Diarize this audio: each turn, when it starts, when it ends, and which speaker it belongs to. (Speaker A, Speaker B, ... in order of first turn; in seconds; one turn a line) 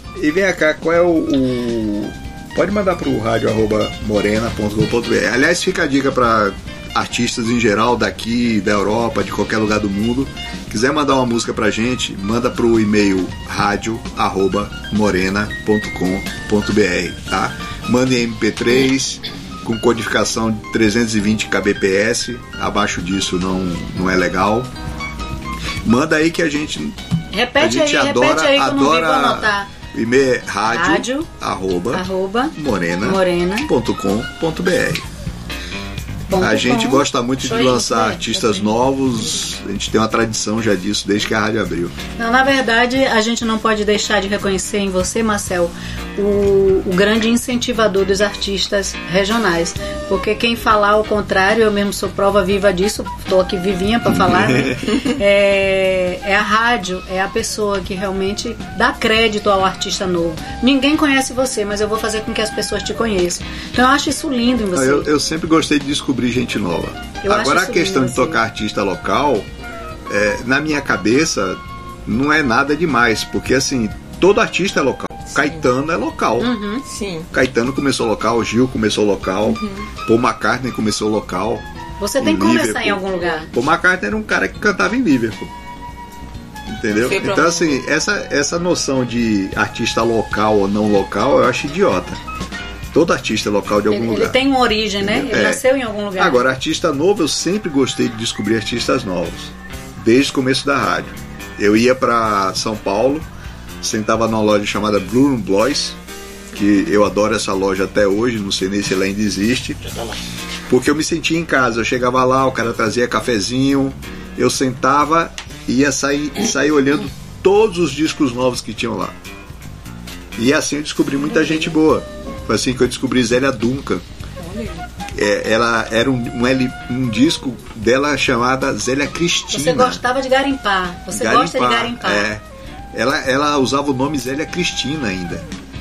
Speaker A: 0.2-24.7
Speaker A: 25.8-27.0
Speaker B: 27.3-29.7
Speaker A: 27.6-35.0
Speaker B: 30.7-31.3
Speaker B: 31.9-33.7
Speaker B: 36.3-38.6
Speaker A: 36.4-41.9
Speaker B: 42.2-65.1
Speaker A: 54.1-54.9
Speaker A: 64.7-69.5
Speaker B: 67.2-68.4
Speaker A: 70.1-76.5
Speaker C: 75.4-75.6
Speaker B: 76.4-76.8
Speaker C: 76.9-77.3
Speaker A: 77.3-81.6
Speaker C: 79.5-79.9
Speaker B: 82.0-83.5
Speaker A: 82.2-85.5
Speaker A: 86.7-92.2
Speaker C: 86.9-87.8
Speaker A: 92.9-94.4
Speaker B: 93.9-96.5
Speaker A: 95.0-103.3
Speaker A: 103.8-106.0
Speaker A: 106.5-109.8
Speaker A: 110.7-119.1
Speaker A: 120.4-124.0
Speaker C: 121.3-121.7
Speaker C: 124.4-124.9
Speaker A: 125.1-130.0
Speaker B: 129.5-132.3
Speaker A: 131.1-132.4
Speaker A: 132.9-135.4